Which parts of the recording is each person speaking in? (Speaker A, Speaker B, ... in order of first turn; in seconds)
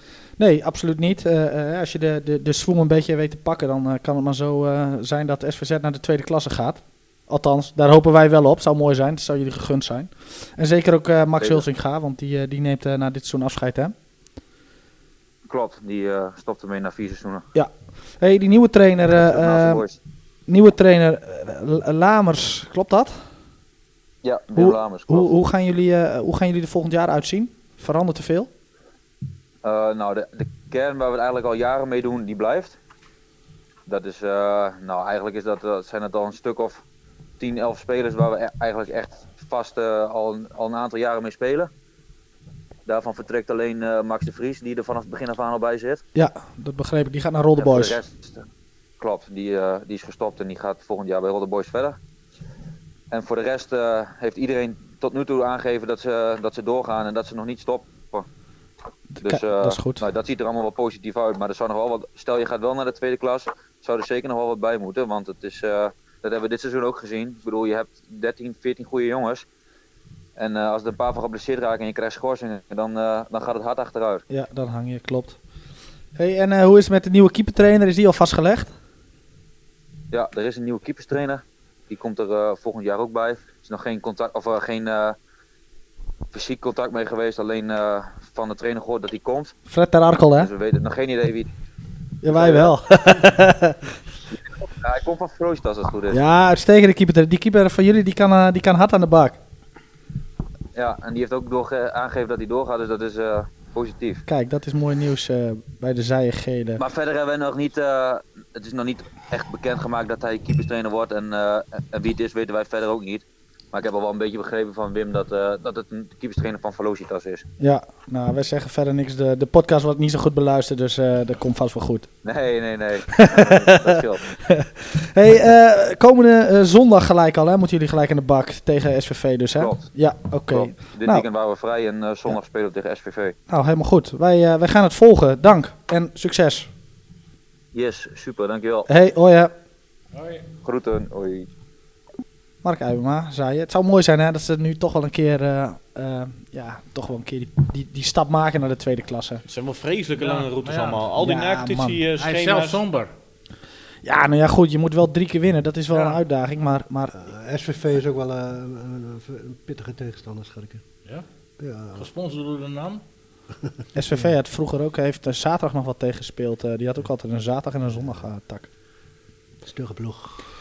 Speaker A: 0.4-13.9, 17.5-19.8, 20.5-23.3, 24.5-28.5, 46.1-48.0, 59.1-60.0, 74.3-75.4, 76.1-78.7, 89.7-90.5, 92.2-93.9, 96.1-99.4, 104.3-106.8, 117.6-122.2, 125.1-131.2, 133.5-136.7, 138.9-139.5, 142.6-149.4, 151.2-152.0, 154.0-157.1, 163.9-168.7
Speaker B: 11.4-11.6, 15.5-17.4, 19.1-20.0, 24.2-25.3, 29.6-32.8, 33.9-36.8, 37.4-41.7, 42.9-46.0, 47.5-48.5, 49.0-52.0, 53.1-58.2, 59.2-69.5, 70.4-74.2, 80.1-85.1, 86.3-89.5, 90.4-91.5, 92.3-92.7, 94.7-96.2, 100.7-104.2, 106.8-117.4, 122.2-124.4, 129.6-133.3, 137.7-138.9, 140.6-141.5
Speaker C: 140.1-140.5, 150.2-151.1, 152.2-153.1, 155.9-156.2, 161.9-163.0
Speaker D: 149.4-152.8
Speaker E: 157.1-160.8, 161.6-162.1, 169.6-170.4